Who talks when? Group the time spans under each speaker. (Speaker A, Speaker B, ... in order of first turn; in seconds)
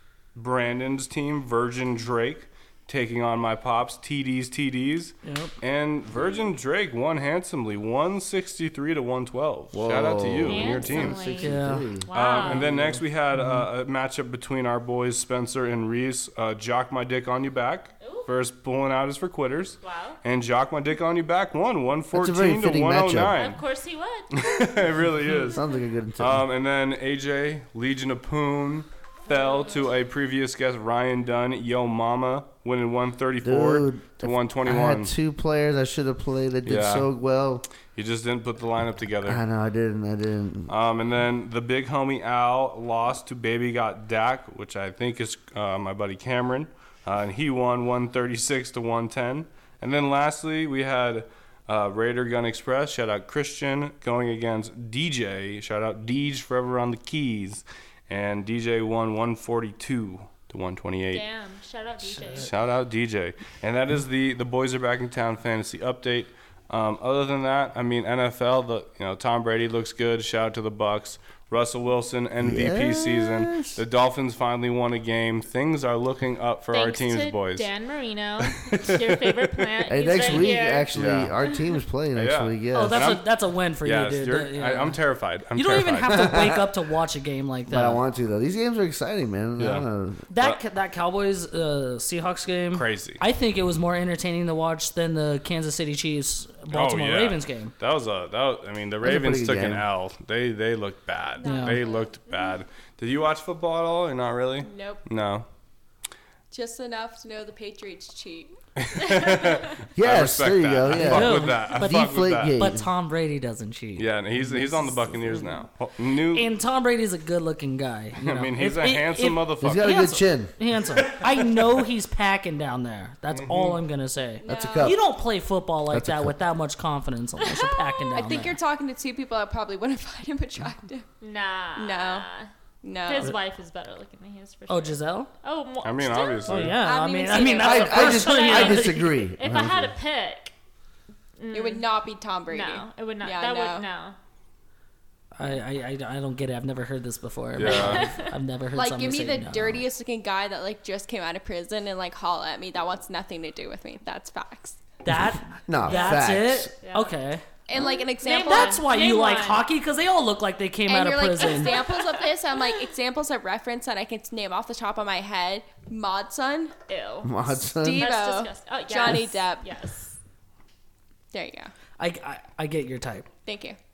Speaker A: 0.3-11.3, 12.1-23.6, 24.3-25.6, 26.2-35.1, 36.6-37.1, 37.9-39.4, 40.7-61.2, 62.3-77.7, 78.4-79.3, 80.9-81.4, 82.1-86.2, 89.6-90.6, 92.7-93.2, 96.7-105.5, 108.8-112.6, 114.0-116.5, 118.2-119.9, 121.0-121.8, 123.3-123.8, 135.8-136.8, 147.5-148.1
Speaker B: 5.2-5.5, 11.4-13.7, 82.7-85.0, 85.5-88.0, 90.3-97.7, 101.4-101.8, 111.0-115.6, 116.3-128.6, 134.7-135.3, 136.5-139.2, 145.4-149.8, 155.0-157.4, 158.2-161.8, 172.0-173.3
Speaker C: 9.7-12.1, 22.1-23.4, 25.4-26.5, 33.4-37.6, 39.2-40.7, 72.4-73.8, 79.9-83.1, 86.1-86.7, 87.7-90.2, 99.0-99.8, 110.0-112.9, 119.6-120.5, 124.5-125.0, 125.9-126.4, 137.6-139.9, 155.7-156.7, 167.2-168.1
Speaker D: 10.4-12.7, 18.0-18.3, 19.8-20.2, 23.4-24.4, 29.3-29.8, 61.1-62.5, 76.7-80.9, 127.4-128.2, 131.2-132.5, 133.0-136.6, 137.3-140.5, 141.4-141.9, 142.5-144.2, 147.6-148.4, 155.8-157.1, 157.7-159.7, 161.4-162.3, 166.9-170.2
Speaker E: 101.4-102.1, 104.6-105.0, 106.5-108.6, 124.4-125.0, 128.1-131.1, 131.8-132.3, 132.8-133.3, 136.8-138.8, 141.5-143.9, 148.7-154.8, 157.7-158.8, 160.9-166.7, 167.8-169.7, 171.3-171.7, 173.4-173.8